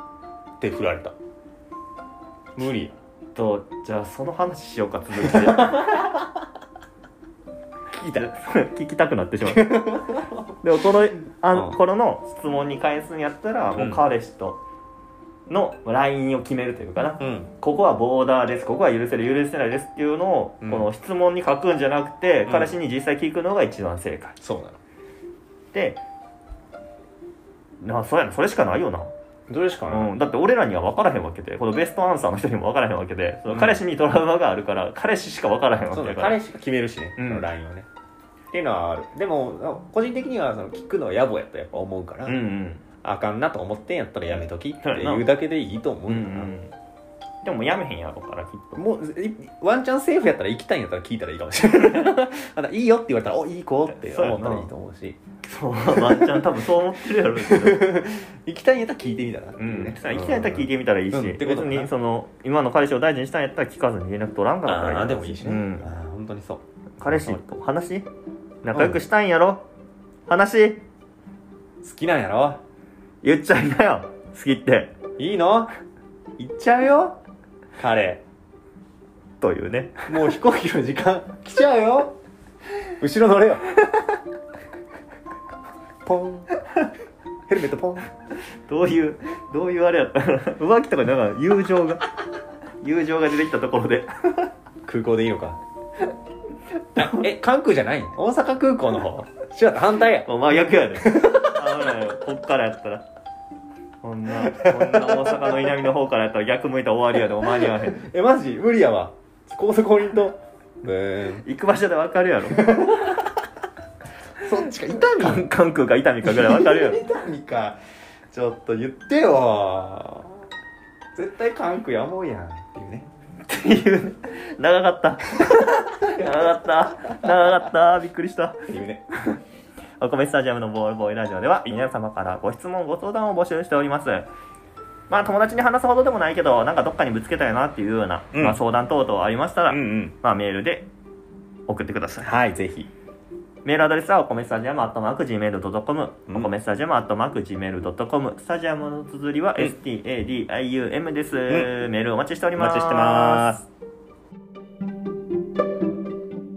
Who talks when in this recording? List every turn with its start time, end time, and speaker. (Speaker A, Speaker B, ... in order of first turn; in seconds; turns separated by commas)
Speaker A: 0.6-1.1, Speaker A: 2.5-3.0, Speaker B: 3.3-6.1, Speaker A: 5.2-6.2, Speaker A: 7.9-8.3, Speaker B: 8.1-10.0, Speaker A: 9.4-10.5, Speaker B: 10.6-14.6, Speaker A: 11.5-11.8, Speaker A: 13.7-14.0, Speaker B: 15.5-24.4, Speaker A: 17.2-17.5, Speaker A: 20.6-20.9, Speaker A: 22.4-22.8, Speaker A: 24.4-24.8, Speaker B: 25.7-26.0, Speaker B: 27.8-29.1, Speaker A: 29.5-30.1, Speaker B: 29.9-36.4, Speaker A: 33.5-33.8, Speaker A: 35.9-37.9, Speaker B: 37.2-37.5, Speaker A: 38.5-42.4, Speaker B: 42.2-42.8, Speaker A: 43.0-46.5, Speaker B: 44.8-45.3, Speaker B: 46.1-46.7, Speaker B: 47.4-48.8, Speaker A: 48.8-55.2, Speaker B: 53.9-54.7, Speaker B: 55.4-57.9, Speaker A: 55.9-56.6, Speaker A: 57.3-61.9, Speaker B: 59.6-65.9, Speaker A: 64.6-67.4, Speaker B: 67.0-68.1, Speaker B: 68.6-69.7, Speaker A: 68.7-69.0, Speaker B: 70.3-70.8, Speaker A: 71.8-72.6, Speaker B: 73.2-74.9, Speaker A: 75.2-75.7, Speaker A: 76.4-77.2, Speaker A: 77.8-78.2, Speaker B: 79.4-80.3, Speaker A: 80.1-82.2, Speaker A: 83.0-83.7, Speaker A: 86.0-86.5, Speaker A: 87.5-88.1, Speaker B: 88.7-92.0, Speaker B: 92.8-94.5, Speaker A: 94.8-95.6, Speaker A: 96.9-101.8, Speaker B: 100.2-103.0, Speaker B: 104.0-108.0, Speaker A: 104.4-105.7, Speaker A: 107.5-111.5, Speaker B: 111.4-113.2, Speaker A: 112.5-113.4, Speaker A: 114.4-115.5, Speaker B: 115.1-117.0, Speaker A: 116.2-117.8, Speaker A: 118.3-120.4, Speaker A: 121.1-123.1, Speaker B: 123.5-128.7, Speaker A: 128.7-129.0, Speaker B: 130.0-134.3, Speaker B: 135.1-140.9, Speaker A: 138.3-138.6, Speaker A: 139.7-140.1, Speaker B: 141.7-142.3, Speaker A: 142.2-142.9, Speaker B: 143.6-153.5, Speaker A: 152.6-153.7